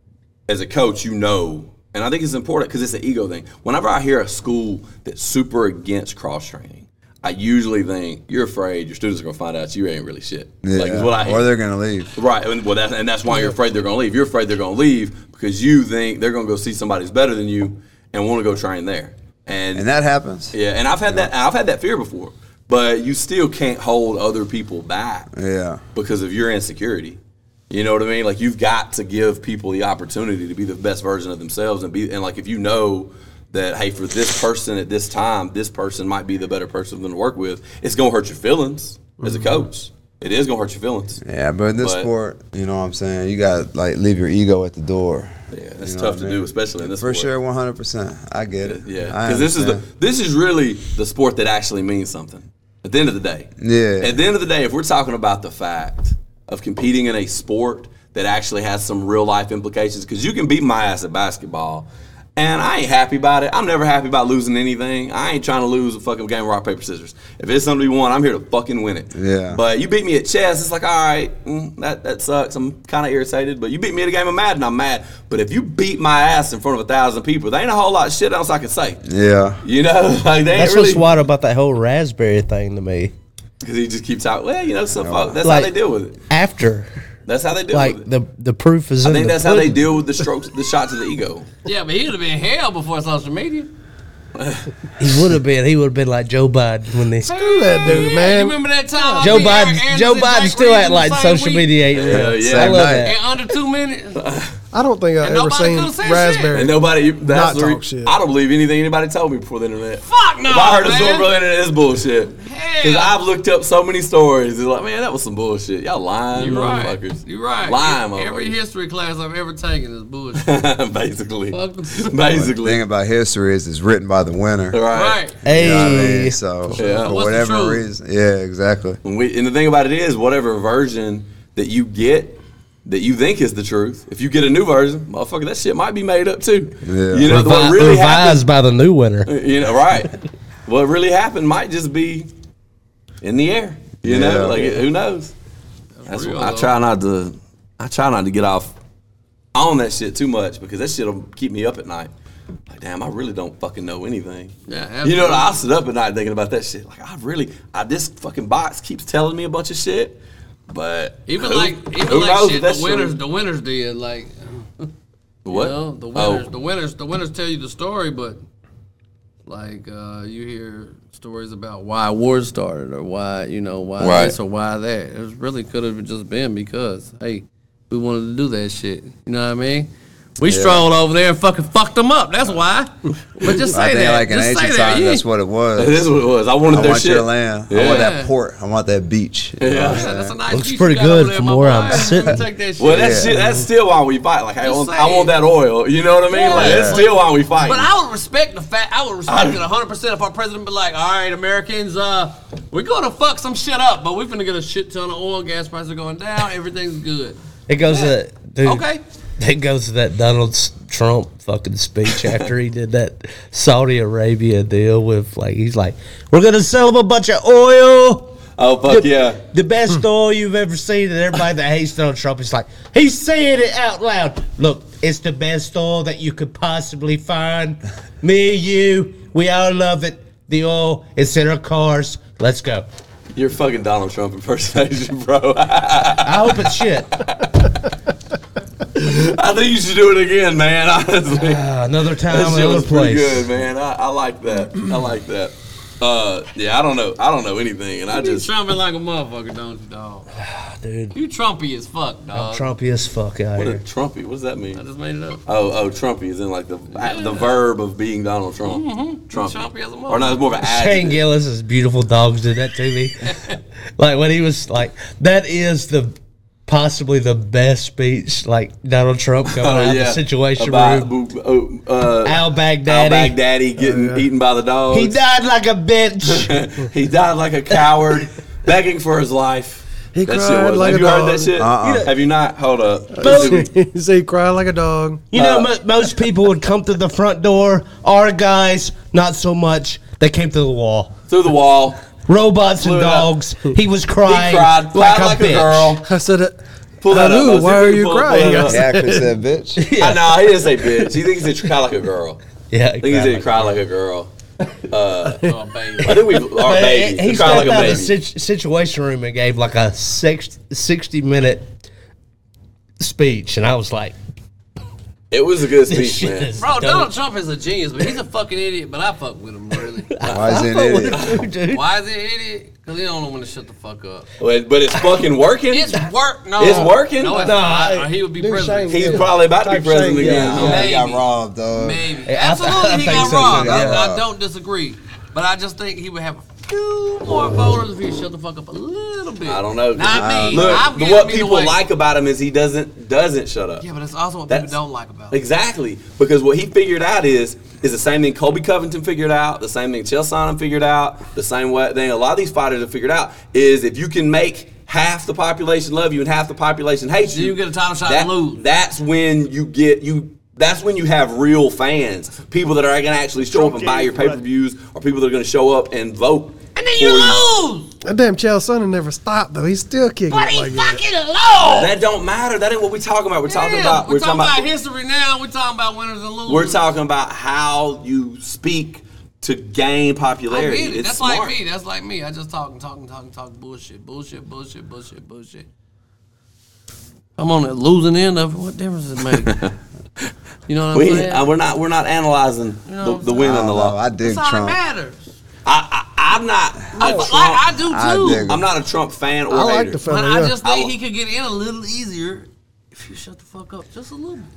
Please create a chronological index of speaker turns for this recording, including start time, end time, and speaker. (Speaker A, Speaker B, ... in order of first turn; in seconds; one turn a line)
Speaker A: 0.5-11.5
Speaker B: 10.6-12.2
Speaker A: 12.2-19.9
Speaker B: 19.8-20.6
Speaker A: 20.5-25.3
Speaker B: 25.3-25.8
Speaker A: 25.9-41.2
Speaker C: 39.2-39.6
Speaker B: 41.2-49.9
Speaker A: 41.8-42.1
Speaker A: 45.5-47.3
Speaker A: 48.6-79.0
Speaker B: 53.6-54.2
Speaker B: 69.1-69.6
Speaker B: 79.0-79.6
Speaker A: 79.6-81.1
Speaker D: 80.5-83.1
Speaker A: 83.6-86.2
Speaker B: 85.0-85.4
Speaker D: 85.4-85.7
Speaker D: 86.3-86.9
Speaker A: 87.3-88.1
Speaker D: 87.7-89.8
Speaker A: 89.0-91.5
Speaker E: 91.7-93.7
Speaker A: 94.4-94.7
Speaker D: 95.0-97.3
Speaker C: 97.2-99.5
Speaker E: 97.4-101.9
Speaker D: 99.2-103.2
Speaker A: 101.9-102.9
Speaker B: 102.1-103.1
Speaker E: 102.8-104.2
Speaker A: 104.2-104.5
Speaker C: 104.7-108.1
Speaker E: 105.2-106.6
Speaker A: 106.5-118.5
Speaker E: 110.1-111.3
Speaker E: 112.4-113.2
Speaker E: 116.3-120.5
Speaker A: 120.3-122.8
Speaker E: 121.5-122.2
Speaker B: 122.3-124.8
Speaker A: 124.7-125.8
Speaker E: 124.9-125.5
Speaker B: 125.4-129.0
Speaker D: 125.5-126.8
Speaker A: 126.8-127.2
Speaker E: 126.8-127.9
Speaker A: 129.0-138.4
Speaker B: 136.8-137.4
Speaker D: 137.3-139.3
Speaker A: 139.2-140.1
Speaker A: 140.7-142.3
Speaker A: 143.2-145.3
Speaker B: 144.0-144.8
Speaker E: 146.0-146.7
Speaker A: 146.1-148.8
Speaker A: 149.5-152.1
Speaker A: 152.7-163.2
Speaker E: 154.7-155.6
Speaker E: 161.3-164.9
Speaker A: 165.4-166.5
Speaker E: 165.5-168.4
Speaker E: 169.5-185.2
Speaker A: 174.0-174.4
Speaker B: 180.4-180.8
Speaker B: 183.7-186.1
Speaker A: 185.8-188.1
Speaker B: 186.7-190.4
Speaker E: 187.7-188.3
Speaker A: 189.6-190.1
Speaker E: 189.7-193.3
Speaker D: 190.5-192.5
Speaker A: 192.8-197.9
Speaker B: 192.9-193.3
Speaker E: 194.6-195.3
Speaker E: 196.3-209.0
Speaker B: 196.5-197.0
Speaker A: 199.3-199.6
Speaker D: 207.7-208.9
Speaker D: 209.4-232.9
Speaker A: 212.1-212.5
Speaker A: 218.6-219.4
Speaker A: 233.3-237.7
Speaker D: 236.2-237.2
Speaker A: 238.9-248.5
Speaker D: 241.3-243.5
Speaker E: 248.1-250.3
Speaker D: 250.4-251.2
Speaker E: 251.1-252.7
Speaker D: 252.3-253.8
Speaker A: 253.6-254.8
Speaker E: 254.8-255.4
Speaker A: 255.4-261.2
Speaker E: 256.9-257.5
Speaker E: 258.6-260.4
Speaker D: 260.6-263.3
Speaker E: 263.2-263.6
Speaker D: 264.0-271.1
Speaker A: 269.4-275.2
Speaker D: 272.2-273.4
Speaker D: 274.9-276.6
Speaker A: 276.2-283.7
Speaker C: 280.1-281.6
Speaker B: 281.6-282.1
Speaker D: 281.8-282.1
Speaker C: 283.1-285.3
Speaker D: 283.2-283.6
Speaker D: 285.3-291.2
Speaker A: 285.3-285.7
Speaker A: 291.3-292.0
Speaker D: 292.3-296.0
Speaker A: 292.8-293.4
Speaker A: 294.2-296.1
Speaker C: 296.1-299.3
Speaker A: 297.0-298.8
Speaker B: 298.6-299.9
Speaker D: 299.8-301.0
Speaker A: 300.0-302.4
Speaker D: 302.7-303.8
Speaker A: 303.0-304.3
Speaker A: 304.9-308.2
Speaker E: 305.4-306.3
Speaker D: 306.1-311.7
Speaker D: 313.0-314.2
Speaker A: 315.3-316.5
Speaker D: 315.9-317.1
Speaker E: 316.6-320.3
Speaker D: 320.1-321.9
Speaker B: 320.3-321.3
Speaker A: 321.1-321.4
Speaker E: 321.7-324.3
Speaker A: 324.4-326.1
Speaker E: 325.7-329.3
Speaker A: 326.6-327.5
Speaker D: 326.7-328.1
Speaker C: 327.3-330.6
Speaker A: 328.9-330.9
Speaker D: 330.2-330.9
Speaker E: 330.4-341.8
Speaker B: 330.4-332.1
Speaker D: 332.2-334.1
Speaker B: 333.1-334.3
Speaker A: 339.4-343.9
Speaker B: 340.1-340.9
Speaker E: 343.8-345.4
Speaker A: 344.5-344.8
Speaker A: 345.3-367.5
Speaker E: 357.3-358.6
Speaker E: 363.6-364.2
Speaker E: 366.8-367.9
Speaker C: 368.0-371.0
Speaker E: 370.3-371.9
Speaker A: 371.7-374.7
Speaker E: 373.5-376.9
Speaker A: 376.5-381.6
Speaker E: 380.5-385.7
Speaker E: 387.4-389.7
Speaker A: 389.3-389.8
Speaker E: 390.7-391.5
Speaker A: 390.9-394.0
Speaker E: 392.9-393.6
Speaker B: 393.4-394.8
Speaker E: 394.1-395.3
Speaker A: 395.6-397.7
Speaker E: 396.9-398.5
Speaker C: 397.0-397.3
Speaker B: 397.8-398.7
Speaker A: 398.2-400.0
Speaker C: 399.5-400.6
Speaker E: 400.0-404.5
Speaker A: 400.6-400.9